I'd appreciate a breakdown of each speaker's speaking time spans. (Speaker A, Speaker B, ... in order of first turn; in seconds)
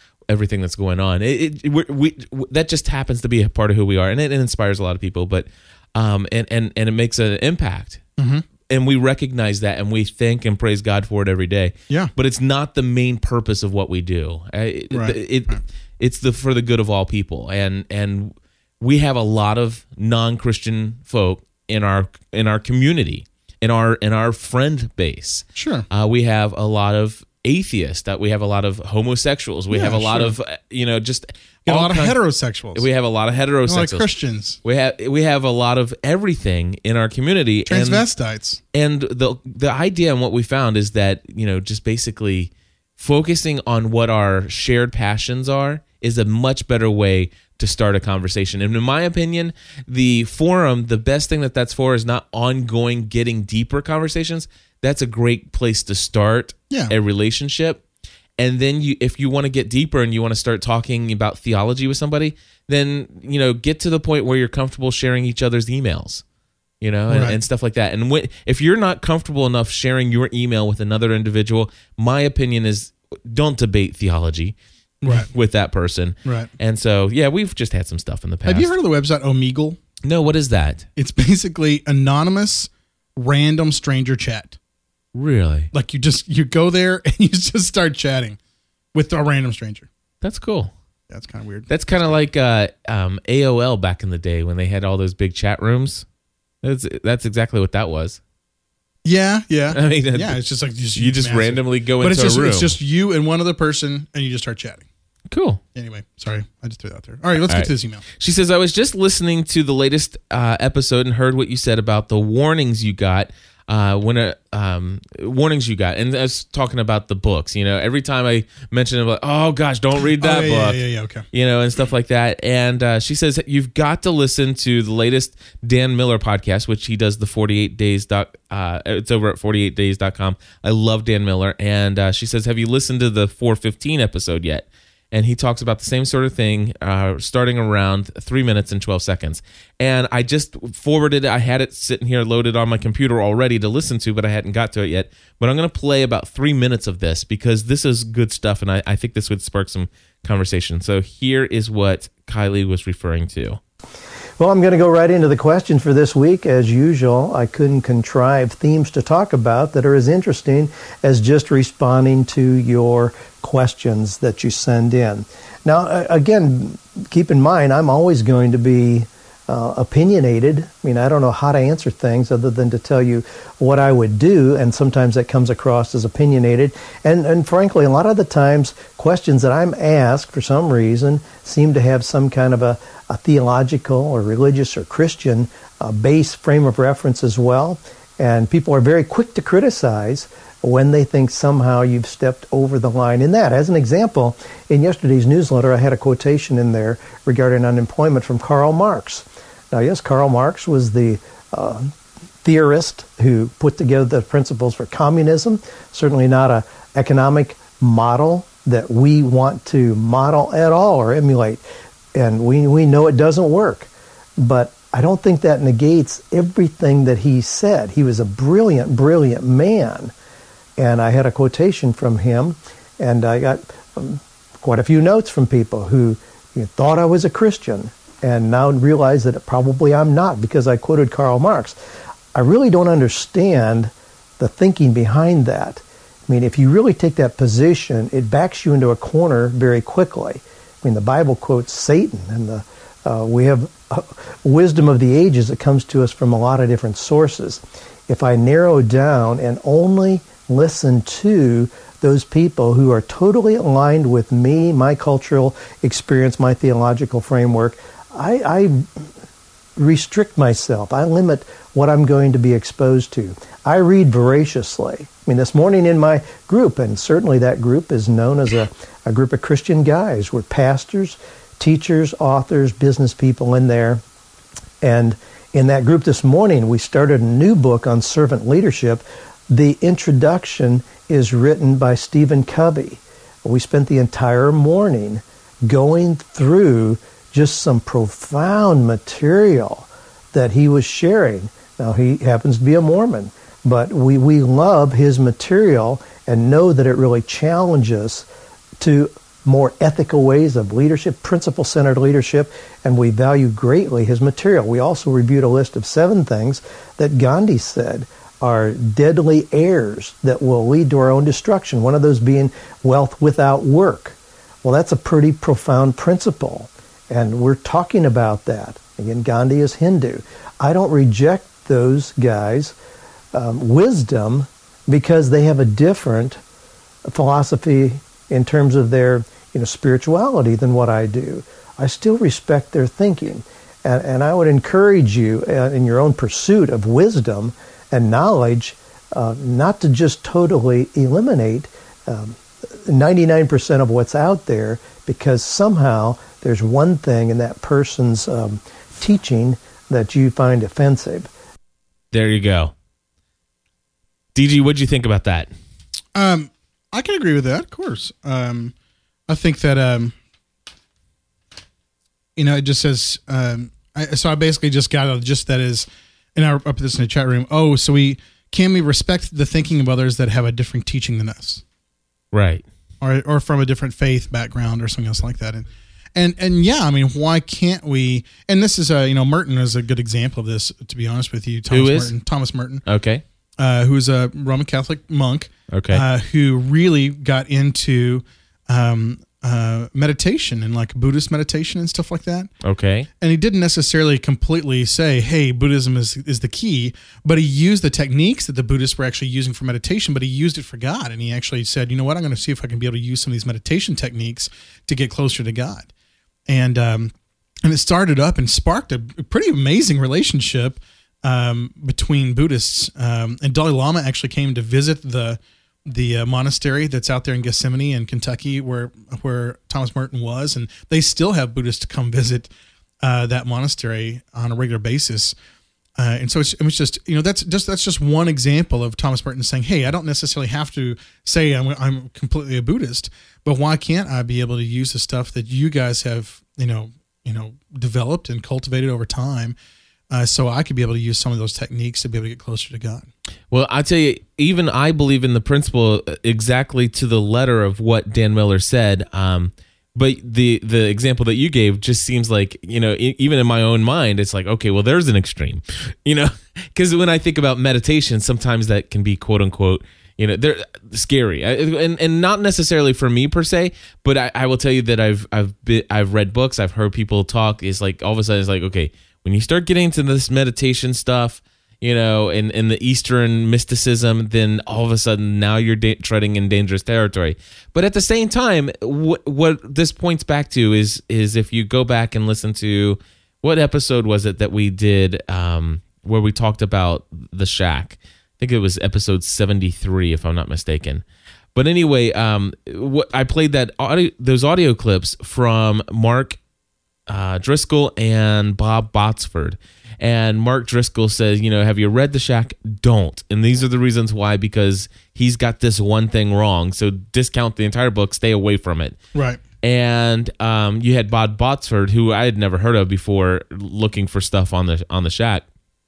Speaker A: 0.3-8.0, 8.7-32.2, 32.8-34.1, 34.6-38.0, 38.7-57.8, 58.4-66.2, 66.8-74.5, 75.1-78.7, 80.0-80.9, 85.1-85.7, 90.2-90.7, 91.7-96.0, 96.6-98.2, 99.7-100.4, 100.9-102.8, 105.3-105.6, 107.4-153.6, 352.1-352.7, 354.4-355.5, 372.3-372.6, 381.7-382.1, 382.9-383.2, 385.7-386.0, 392.6-393.1, 443.5-491.0, 491.5-496.4, 497.1-509.0, 509.6-515.5
Speaker B: 8.2-8.4, 14.9-15.6, 25.6-25.9, 29.7-30.3, 31.6-32.9, 33.7-34.6, 37.7-38.6, 67.1-67.4, 75.0-75.3, 76.2-76.5, 78.5-79.8, 81.0-84.6, 85.7-88.4, 88.9-89.9, 91.1-92.1, 99.0-104.8, 105.8-108.0, 120.2-121.2, 356.1-358.7, 359.3-360.1, 362.4-371.6, 373.0-382.9, 383.6-392.5, 393.2-405.9, 406.5-407.1, 407.6-422.5, 423.0-425.3, 426.0-439.6, 440.1-443.1, 509.1-509.4
Speaker C: 154.4-201.9, 202.4-211.6, 212.2-213.9, 214.4-220.1, 220.8-231.8, 232.3-259.1, 259.8-274.0, 274.8-298.3, 298.8-322.8, 323.3-326.4, 327.1-351.3